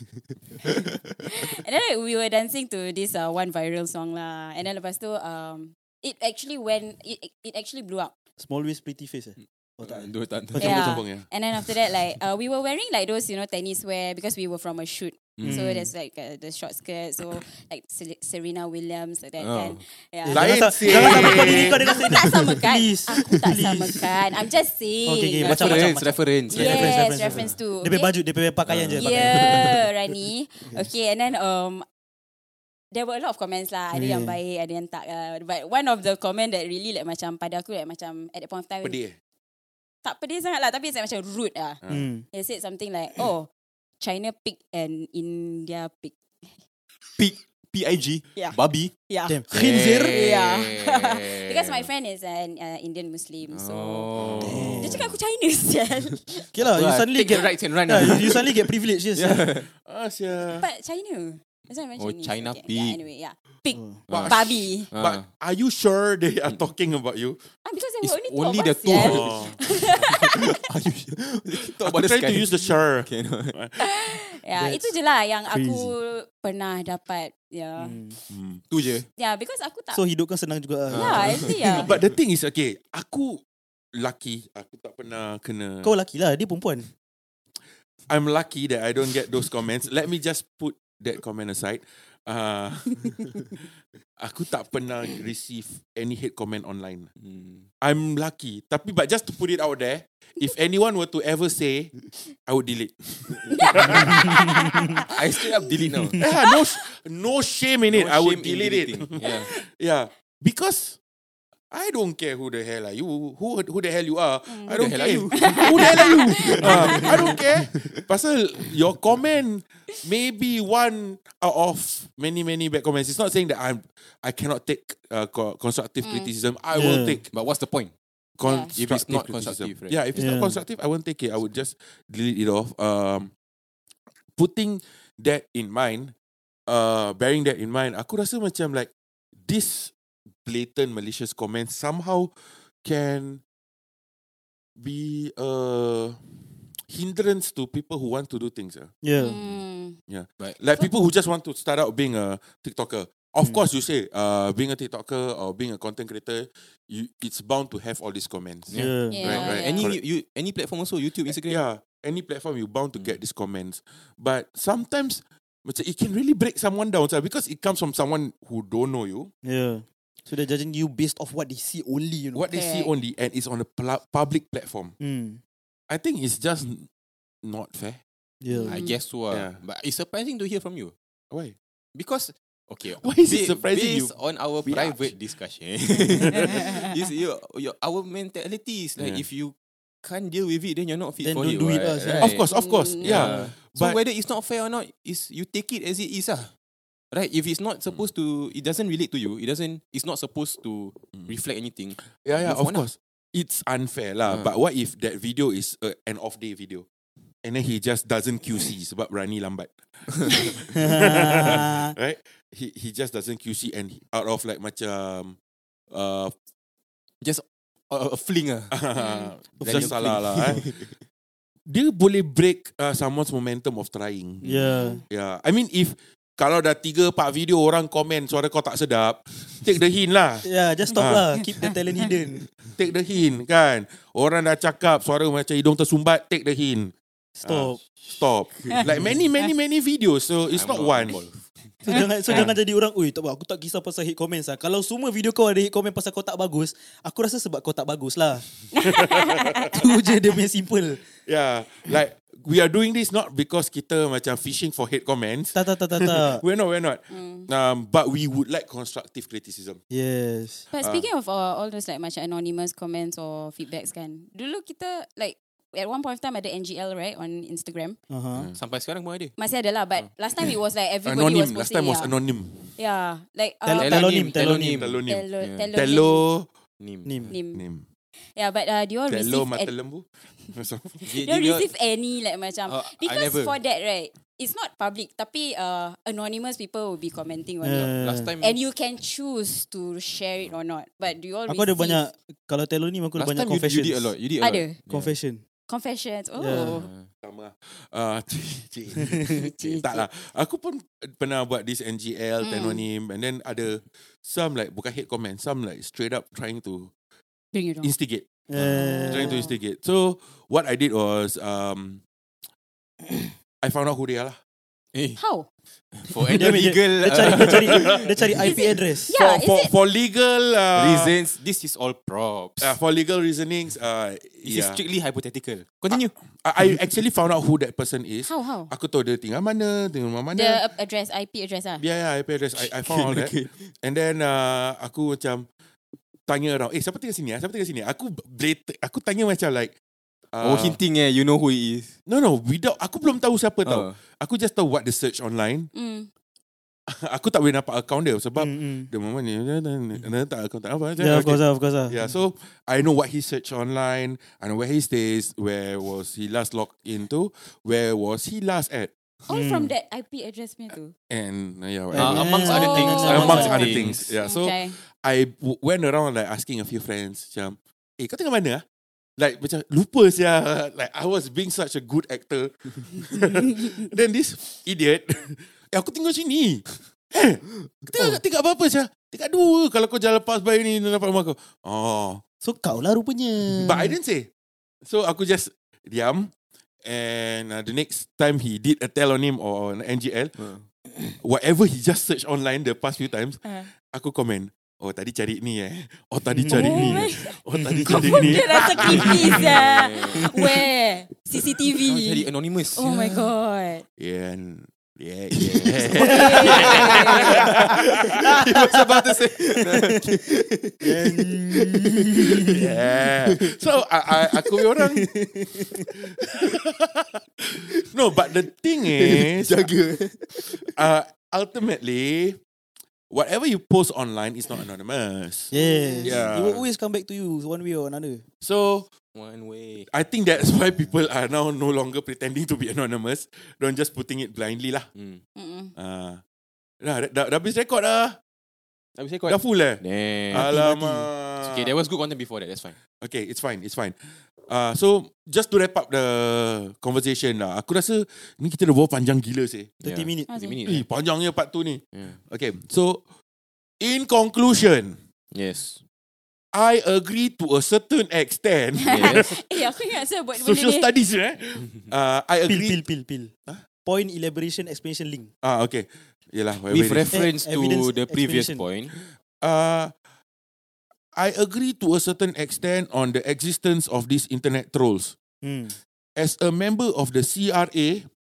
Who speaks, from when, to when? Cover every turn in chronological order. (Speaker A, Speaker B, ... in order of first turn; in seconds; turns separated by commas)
Speaker A: 0.6-1.1, Speaker B: 1.3-8.1, Speaker C: 8.4-10.8, Speaker A: 9.4-11.0, Speaker B: 10.6-28.1, Speaker D: 10.6-11.2, Speaker A: 15.4-15.8, Speaker C: 15.4-15.9, Speaker A: 19.4-19.8, Speaker C: 20.2-24.0, Speaker D: 20.3-21.8, Speaker C: 25.1-29.7, Speaker A: 25.4-27.5, Speaker A: 28.7-29.8, Speaker B: 29.0-31.9, Speaker B: 32.9-39.0, Speaker C: 33.9-34.4, Speaker D: 38.8-39.1, Speaker B: 40.0-41.8, Speaker D: 41.8-42.1, Speaker C: 41.9-42.2, Speaker B: 42.3-43.5, Speaker B: 44.0-46.1, Speaker A: 47.2-48.9, Speaker B: 49.1-49.4, Speaker C: 49.3-50.2, Speaker A: 49.5-51.9, Speaker B: 50.1-54.1, Speaker A: 53.5-55.1, Speaker D: 54.2-54.8, Speaker C: 54.4-55.0, Speaker B: 54.8-56.5, Speaker C: 56.5-59.5, Speaker A: 56.5-59.7, Speaker D: 59.8-60.6, Speaker B: 60.5-64.9, Speaker A: 62.0-63.0, Speaker C: 63.7-64.0, Speaker A: 64.1-65.3, Speaker D: 64.1-67.5, Speaker B: 67.6-70.5, Speaker A: 68.0-73.6, Speaker D: 68.9-69.6, Speaker D: 71.8-73.8, Speaker B: 73.8-78.0, Speaker C: 74.6-74.9, Speaker C: 75.5-75.9, Speaker C: 77.8-78.2, Speaker D: 78.3-78.6, Speaker A: 78.7-79.1, Speaker B: 79.2-80.0, Speaker C: 79.9-81.9, Speaker A: 80.9-81.8, Speaker B: 80.9-81.9, Speaker D: 81.7-83.4, Speaker D: 83.9-85.9, Speaker C: 85.8-86.9, Speaker D: 88.1-93.6, Speaker D: 94.2-97.1, Speaker A: 97.2-97.7, Speaker D: 97.8-104.5, Speaker A: 103.3-103.9, Speaker B: 103.5-105.0, Speaker C: 103.9-104.5, Speaker A: 105.1-106.2, Speaker D: 106.2-111.0, Speaker A: 107.9-109.5, Speaker D: 111.7-127.3, Speaker B: 114.5-117.4, Speaker A: 114.7-118.0, Speaker B: 126.0-126.3, Speaker C: 126.7-127.2, Speaker A: 127.3-127.9, Speaker D: 128.4-133.3, Speaker B: 128.4-128.7, Speaker A: 128.7-130.0, Speaker C: 130.2-130.6, Speaker D: 134.3-136.1, Speaker D: 136.7-138.9, Speaker D: 139.4-139.9, Speaker D: 140.4-143.4, Speaker D: 144.8-148.9, Speaker C: 149.0-149.4, Speaker B: 149.2-150.0, Speaker D: 150.1-160.0, Speaker A: 158.7-161.6, Speaker C: 158.7-159.3, Speaker B: 159.1-159.9, Speaker D: 161.2-169.3, Speaker C: 169.4-172.4, Speaker D: 172.3-174.9, Speaker B: 172.5-172.9, Speaker C: 175.0-175.4, Speaker D: 175.9-176.9, Speaker D: 177.4-178.0, Speaker C: 178.4-178.8, Speaker B: 178.5-178.9, Speaker A: 178.7-180.9, Speaker D: 179.3-179.6, Speaker D: 181.3-181.6, Speaker A: 181.9-192.5, Speaker D: 182.9-185.1, Speaker D: 186.3-186.6, Speaker D: 189.0-189.3, Speaker C: 191.2-192.3, Speaker D: 192.2-194.0, Speaker B: 192.5-193.2, Speaker A: 193.0-196.5, Speaker C: 193.1-193.5, Speaker A: 197.1-202.9, Speaker D: 202.0-206.8, Speaker A: 204.3-204.5, Speaker D: 207.4-215.4, Speaker C: 210.7-211.9, Speaker D: 215.9-216.3, Speaker A: 217.2-218.8, Speaker D: 218.7-220.8, Speaker B: 218.9-219.3, Speaker C: 219.6-220.0, Speaker A: 219.6-221.0, Speaker D: 221.7-224.5, Speaker C: 224.4-225.0, Speaker B: 224.6-225.0, Speaker D: 225.1-231.4, Speaker C: 230.4-232.4, Speaker D: 232.6-236.9, Speaker C: 237.3-237.8, Speaker D: 237.4-241.2, Speaker A: 238.6-239.2, Speaker A: 240.5-241.7, Speaker C: 241.8-248.6, Speaker B: 248.8-249.8, Speaker D: 248.8-249.7, Speaker C: 249.7-251.0, Speaker D: 251.2-259.8, Speaker C: 255.5-256.4, Speaker B: 257.1-257.5, Speaker C: 259.9-260.6, Speaker B: 260.7-268.0, Speaker D: 260.8-261.1, Speaker C: 268.1-268.5, Speaker A: 268.5-269.3, Speaker B: 269.4-272.1, Speaker D: 271.0-272.8, Speaker B: 272.8-274.2, Speaker C: 273.6-274.9, Speaker A: 273.7-275.7, Speaker D: 274.7-276.5, Speaker B: 275.1-276.2, Speaker A: 276.8-277.3, Speaker C: 277.0-277.3, Speaker B: 277.3-277.6, Speaker D: 277.5-277.8, Speaker B: 278.2-279.7, Speaker D: 279.1-281.1, Speaker A: 281.1-281.6, Speaker B: 281.1-292.0, Speaker A: 282.7-283.6, Speaker C: 287.6-288.3, Speaker A: 287.8-288.5, Speaker C: 291.5-294.1, Speaker A: 293.1-295.2, Speaker B: 294.4-294.8, Speaker C: 294.9-295.4, Speaker B: 295.7-296.9, Speaker C: 296.4-296.8, Speaker A: 296.5-297.1, Speaker D: 297.2-306.9, Speaker B: 299.3-300.0, Speaker B: 302.4-302.8, Speaker B: 307.5-307.9, Speaker D: 307.8-312.0, Speaker C: 308.5-309.4, Speaker B: 308.7-309.5, Speaker D: 313.6-314.4, Speaker A: 314.9-315.2, Speaker B: 315.2-315.5, Speaker A: 315.9-318.1, Speaker C: 316.3-319.1, Speaker D: 317.2-318.0, Speaker B: 318.4-319.7, Speaker D: 319.1-321.1, Speaker A: 320.8-322.8, Speaker D: 322.6-324.8, Speaker A: 324.4-326.1, Speaker D: 325.9-330.6, Speaker B: 328.2-328.7, Speaker B: 330.3-331.8, Speaker D: 331.8-335.4, Speaker A: 332.5-333.7, Speaker D: 336.3-339.7, Speaker D: 340.3-340.8, Speaker A: 340.4-341.9, Speaker D: 342.1-345.7, Speaker A: 343.6-344.0, Speaker B: 345.7-346.1, Speaker D: 346.9-358.9, Speaker C: 348.4-348.9, Speaker C: 351.0-352.1, Speaker B: 359.3-360.9, Speaker C: 359.3-359.7, Speaker D: 361.1-368.6, Speaker C: 361.9-363.8, Speaker A: 361.9-364.1, Speaker B: 362.4-364.8, Speaker D: 369.2-382.2, Speaker C: 382.4-384.0, Speaker D: 383.5-384.3, Speaker D: 384.8-386.3, Speaker D: 386.8-390.5, Speaker A: 390.4-390.6, Speaker D: 391.2-399.5, Speaker B: 393.4-393.7, Speaker C: 396.3-398.2, Speaker B: 396.5-397.4, Speaker B: 397.9-403.8, Speaker A: 398.7-400.3, Speaker A: 401.8-403.1, Speaker D: 404.0-408.2, Speaker A: 405.3-407.4, Speaker B: 406.0-407.3, Speaker C: 406.0-406.4, Speaker A: 408.1-412.6, Speaker C: 408.2-409.1, Speaker C: 410.8-412.6, Speaker D: 412.5-415.1, Speaker A: 413.3-413.6, Speaker C: 414.9-415.9, Speaker D: 416.1-419.7, Speaker A: 419.0-420.7, Speaker D: 420.3-422.4, Speaker D: 423.1-426.6, Speaker B: 425.5-426.1, Speaker C: 425.5-428.2, Speaker D: 428.4-428.9, Speaker A: 429.1-429.9, Speaker D: 429.9-434.9, Speaker A: 434.9-435.2, Speaker B: 435.4-435.7, Speaker D: 435.8-436.2, Speaker D: 436.8-438.2, Speaker A: 438.9-440.5, Speaker D: 439.3-441.7, Speaker C: 440.3-441.1, Speaker A: 441.4-442.8, Speaker D: 443.0-449.7, Speaker A: 449.8-450.9, Speaker C: 449.8-450.3, Speaker B: 450.3-450.6, Speaker D: 450.6-453.0, Speaker A: 451.9-452.2, Speaker D: 453.8-455.0, Speaker A: 455.3-455.8, Speaker D: 456.5-459.8, Speaker B: 458.8-460.9, Speaker A: 458.9-459.3, Speaker D: 460.3-462.8, Speaker C: 462.4-463.3, Speaker C: 463.8-465.3, Speaker D: 465.4-467.2, Speaker A: 466.7-468.9, Speaker C: 467.1-468.6, Speaker D: 468.9-469.9, Speaker D: 471.1-475.1, Speaker C: 475.4-475.8, Speaker D: 476.1-478.1